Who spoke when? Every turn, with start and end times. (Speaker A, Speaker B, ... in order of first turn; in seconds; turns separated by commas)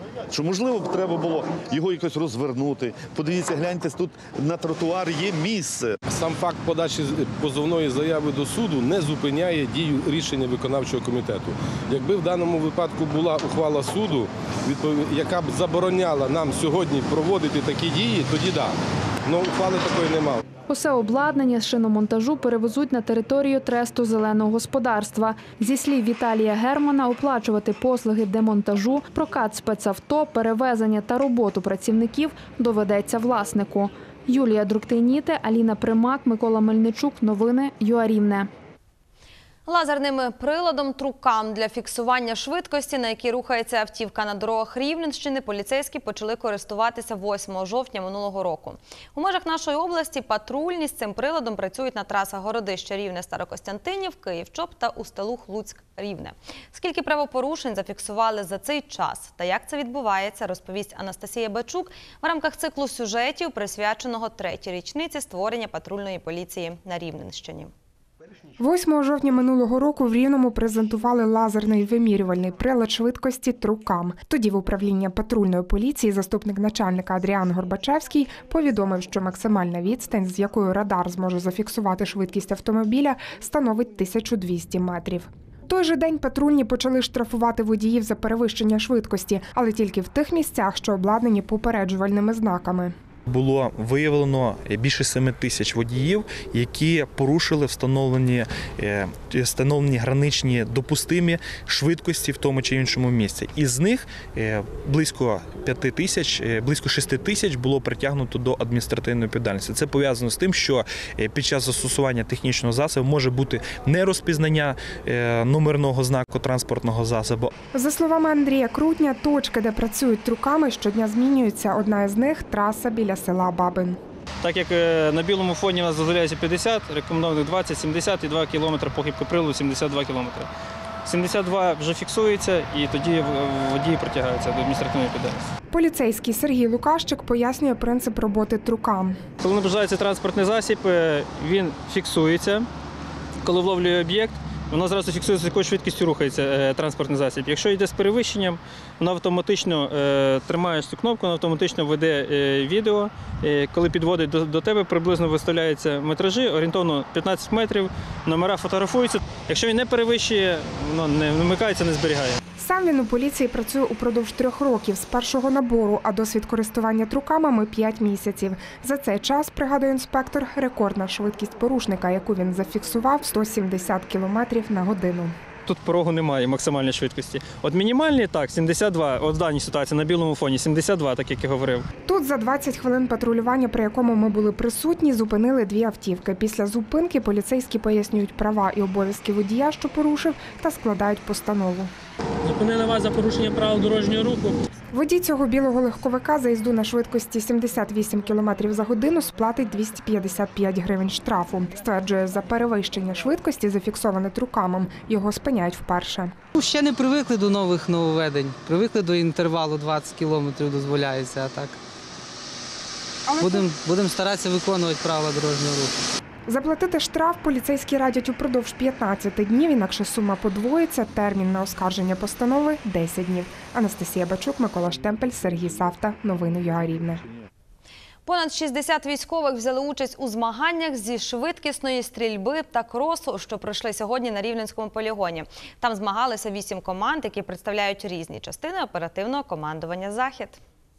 Speaker A: 0.3-6.0, Speaker B: 6.1-18.7, Speaker B: 19.3-20.4, Speaker C: 20.7-38.5, Speaker D: 39.6-67.7, Speaker E: 68.6-92.9, Speaker F: 93.3-117.5, Speaker E: 117.7-124.0, Speaker G: 124.4-130.5, Speaker G: 131.0-135.4, Speaker E: 135.7-139.2, Speaker G: 139.4-142.7, Speaker G: 143.4-162.4, Speaker E: 162.6-175.3, Speaker G: 175.7-181.8, Speaker E: 182.1-191.9, Speaker G: 192.6-194.4, Speaker E: 194.9-206.3, Speaker H: 207.4-211.7, Speaker E: 213.3-213.7, Speaker H: 213.4-215.1, Speaker E: 216.5-227.2, Speaker D: 228.2-240.6